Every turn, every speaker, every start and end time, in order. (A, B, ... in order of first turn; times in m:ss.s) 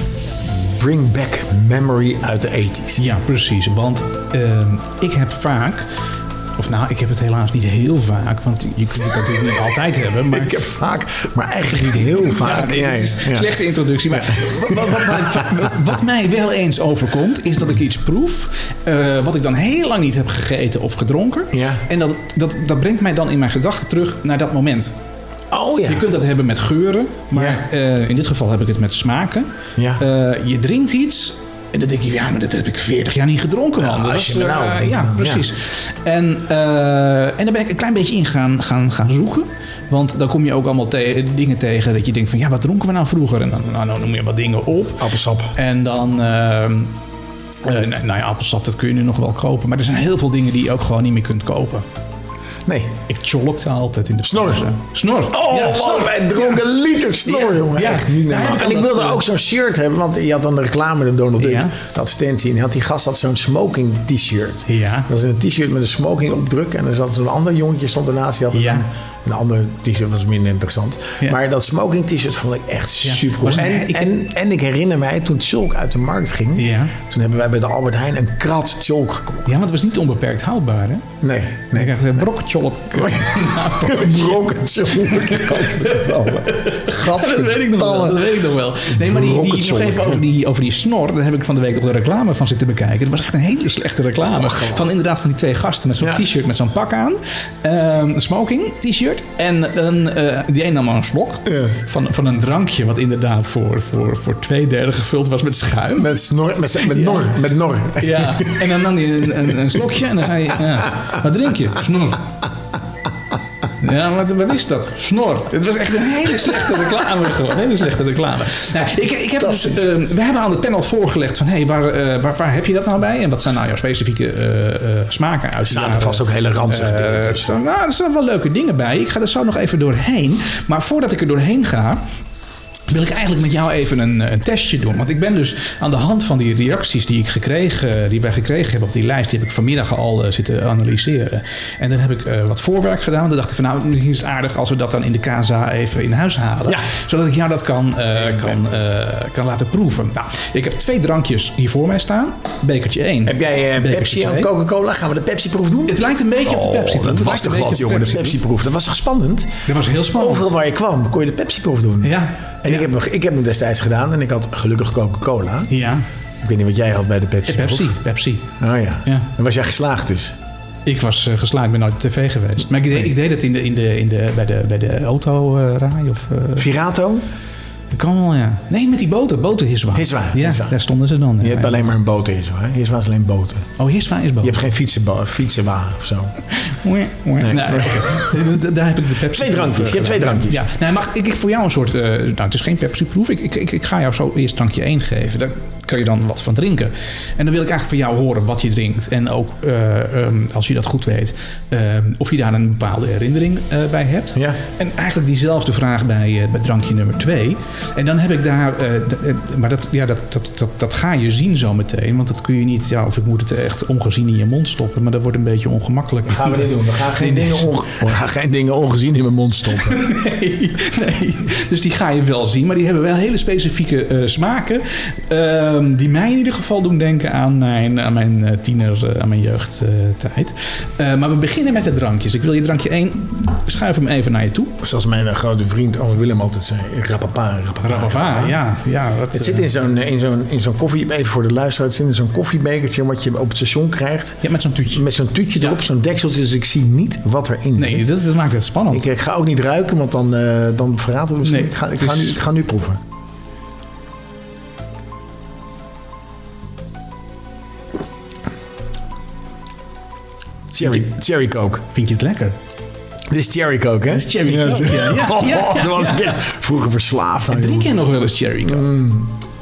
0:00.4-0:03.0 A
0:03.0-0:05.8 B
0:06.6-0:10.6 B
0:10.3-0:13.5 A
0:11.9-0:24.9 B
0:14.1-0:15.7 A
0:21.5-0:21.8 A
0:25.5-0:26.1 A
0:25.9-0:47.0 B
0:27.3-0:27.6 A
0:29.8-0:30.0 A
0:33.8-0:35.5 A
0:45.0-0:45.6 A
0:47.6-0:51.8 B
0:52.6-0:53.0 A
0:53.1-0:56.6 B
0:54.2-0:54.6 A
0:55.3-1:19.6 A
0:57.2-0:59.2 B
1:01.4-1:01.7 B
1:04.7-1:05.1 B
1:08.5-1:08.8 B
1:13.0-1:14.2 B
1:16.6-1:16.9 B
1:19.4-1:21.2 B
1:21.2-1:22.1 A
1:21.7-1:46.1 B
1:23.0-1:30.2 A
1:34.5-1:34.8 A
1:41.5-1:41.8 A
1:46.0-1:48.6 A
1:46.8-1:47.4 B
1:48.0-1:52.4 B
1:53.8-2:12.0 B
1:59.4-1:59.9 A
2:05.6-2:07.6 A
2:12.9-2:34.5 B
2:28.1-2:28.7 A
2:33.2-2:45.7 A
2:35.9-2:38.4 B
2:39.6-2:40.5 B
2:42.0-2:42.9 B
2:45.7-2:46.0 B
2:46.4-2:47.9 A
2:47.4-2:48.5 B
2:48.6-2:50.3 A
2:50.8-2:56.7 B
2:56.6-2:57.2 A
2:57.9-3:01.9 B
2:59.9-3:00.8 A
3:01.4-3:03.7 A
3:03.8-3:04.6 B
3:04.4-3:06.3 A
3:06.5-3:37.8 B
3:07.4-3:08.3 A
3:09.3-3:10.6 A
3:24.3-3:24.6 A
3:36.3-3:40.0 A
3:39.7-3:54.8 B
3:54.8-3:58.6 A
3:57.8-3:59.7 B
3:59.3-4:08.1 A
4:04.4-4:05.0 B
4:07.8-4:09.1 B
4:08.9-4:13.0 A
4:11.4-4:12.4 B
4:20.7-4:21.8 A
4:21.9-4:22.6 B
4:23.3-4:28.0 A
4:24.1-4:26.4 B
4:27.4-4:28.9 B
4:28.6-4:29.4 A